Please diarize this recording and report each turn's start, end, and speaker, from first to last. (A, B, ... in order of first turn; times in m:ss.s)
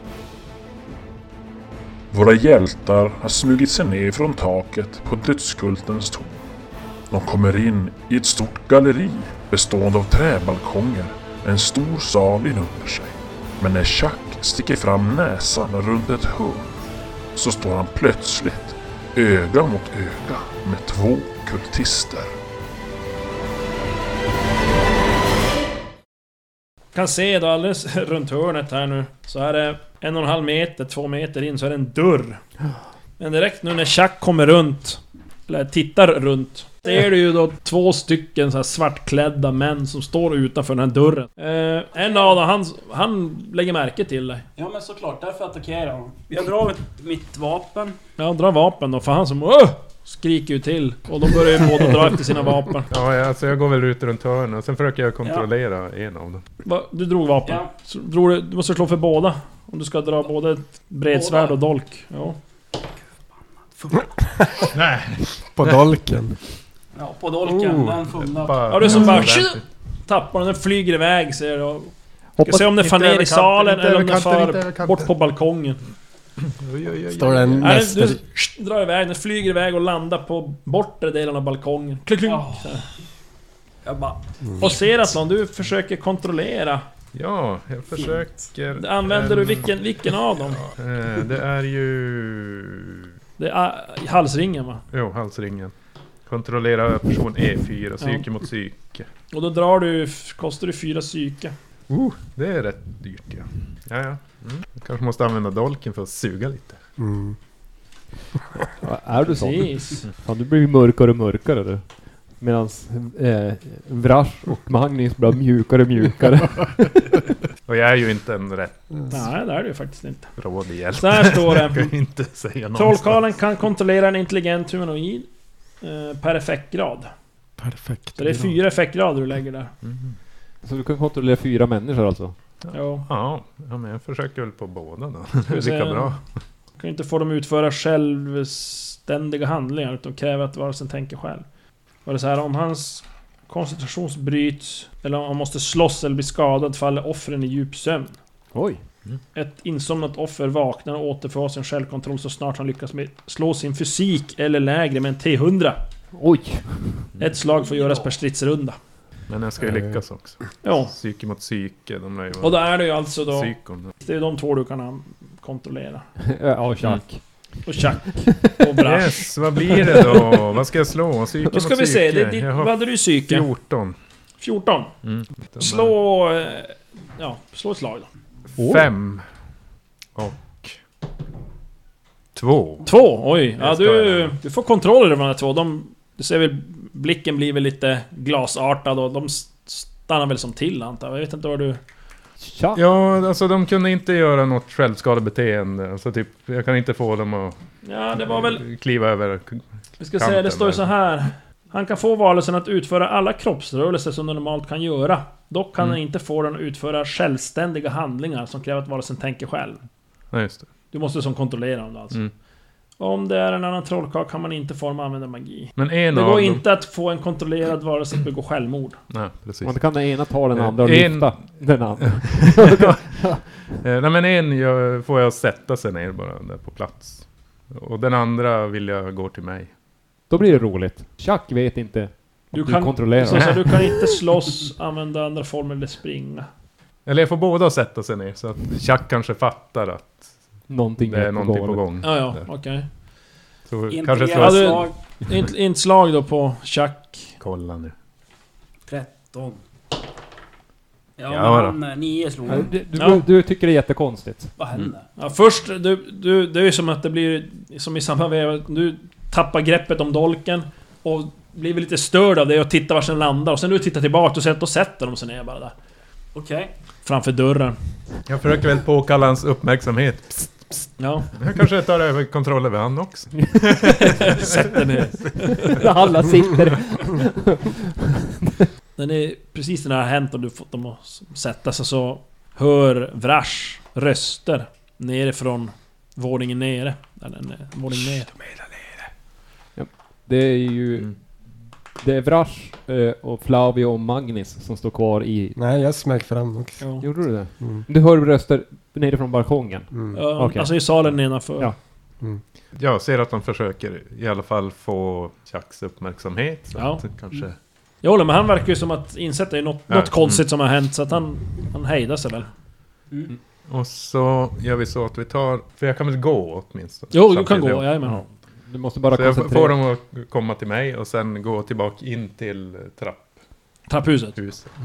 0:02.1-0:06.4 A
0:07.1-0:16.8 A
0:17.4-0:22.3 A
0:26.9-0:32.4 B
0:33.2-0:44.4 B
0:42.0-0:42.4 C
0:44.6-0:48.0 C
0:48.2-0:52.9 B
0:52.9-0:56.4 D
0:56.6-1:02.4 B
1:01.1-1:01.6 C
1:03.7-1:04.6 C
1:04.4-1:04.7 E
1:04.7-1:05.9 D
1:05.5-1:06.4 E
1:06.9-1:09.0 C
1:07.4-1:09.6 D
1:08.7-1:11.9 B
1:12.4-1:12.7 F
1:12.4-1:15.8 B
1:12.8-1:15.1 D
1:16.5-1:17.7 D
1:17.1-1:18.2 E
1:17.6-1:22.9 B
1:22.2-1:22.8 C
1:23.8-1:24.7 C
1:24.4-1:24.7 E
1:24.6-1:26.8 B
1:27.1-1:29.7 D
1:27.9-1:28.3 C
1:28.8-1:30.6 B
1:30.6-1:33.1 D
1:33.4-1:34.8 B
1:34.9-1:35.7 D
1:36.3-1:39.1 D
1:38.0-1:38.2 B
1:39.3-1:41.5 B
1:41.9-1:46.8 D
1:47.0-1:47.4 E
1:48.8-1:51.9 F
1:49.2-1:50.1 B
1:52.4-1:56.9 F
1:57.7-1:58.8 D
1:59.1-2:00.3 B
2:00.4-2:03.3 D
2:01.0-2:01.9 B
2:02.8-2:05.3 B
2:05.8-2:07.1 B
2:07.6-2:08.6 E
2:08.2-2:09.7 B
2:09.8-2:10.1 D
2:10.6-2:12.4 F
2:12.6-2:16.2 D
2:12.7-2:13.1 B
2:15.5-2:16.2 B
2:16.8-2:21.4 B
2:22.0-2:28.2 B
2:28.5-2:28.8 F
2:29.4-2:35.8 B
2:36.2-2:37.1 F
2:37.2-2:38.8 B
2:37.6-2:38.1 C
2:39.3-2:43.9 D
2:39.6-2:40.0 E
2:40.6-2:40.9 B
2:42.4-2:46.0 B
2:46.4-2:47.6 F
2:47.6-2:49.3 B
2:48.2-2:48.6 F
2:48.8-2:54.0 D
2:49.8-2:50.3 F
2:51.5-2:53.5 B
2:54.4-2:54.9 B
2:55.0-2:56.0 D
2:55.6-2:58.1 B
2:58.6-2:59.2 D
2:58.6-2:58.9 F
3:00.2-3:00.8 D
3:02.4-3:02.9 D
3:02.8-3:11.8 B
3:03.6-3:04.4 D
3:12.4-3:12.8 F
3:12.8-3:17.6 D
3:17.8-3:18.6 B
3:18.2-3:20.9 D
3:20.0-3:29.8 B
3:30.3-3:30.7 D
3:30.9-3:32.2 B
3:33.0-3:39.0 B
3:35.8-3:36.6 D
3:39.1-3:49.7 D
3:39.6-3:43.6 F
3:50.3-3:53.8 F
3:52.5-3:56.5 B
3:53.4-3:53.6 D
3:57.1-4:00.3 D
4:00.7-4:01.8 F
4:01.0-4:02.4 D
4:02.0-4:02.9 B
4:03.7-4:04.9 D
4:03.9-4:04.9 C
4:04.4-4:07.3 B
4:07.4-4:07.9 D
4:08.9-4:09.6 C
4:11.2-4:12.8 C
4:11.3-4:11.8 D
4:12.5-4:14.5 F
4:12.9-4:13.2 B
4:14.6-4:15.1 C
4:15.2-4:25.7 B
4:26.3-4:26.7 C
4:27.0-4:27.8 B
4:28.3-4:30.7 D
4:31.0-4:31.3 B
4:31.4-4:34.8 D
4:33.9-4:35.9 B
4:35.6-4:38.7 F
4:39.0-4:48.3 B
4:49.8-4:51.1 F
4:52.0-4:55.6 F
4:55.6-4:56.8 E
4:56.8-4:57.1 B
4:57.0-5:00.8 F
4:59.9-5:00.2 E
5:00.1-5:01.7 B
5:02.8-5:07.6 D
5:06.8-5:07.0 B
5:08.0-5:12.5 B
5:09.9-5:10.4 D
5:13.7-5:18.0 D
5:17.1-5:18.2 B
5:18.0-5:19.8 F
5:19.1-5:23.2 D
5:23.9-5:24.4 B
5:24.4-5:24.7 D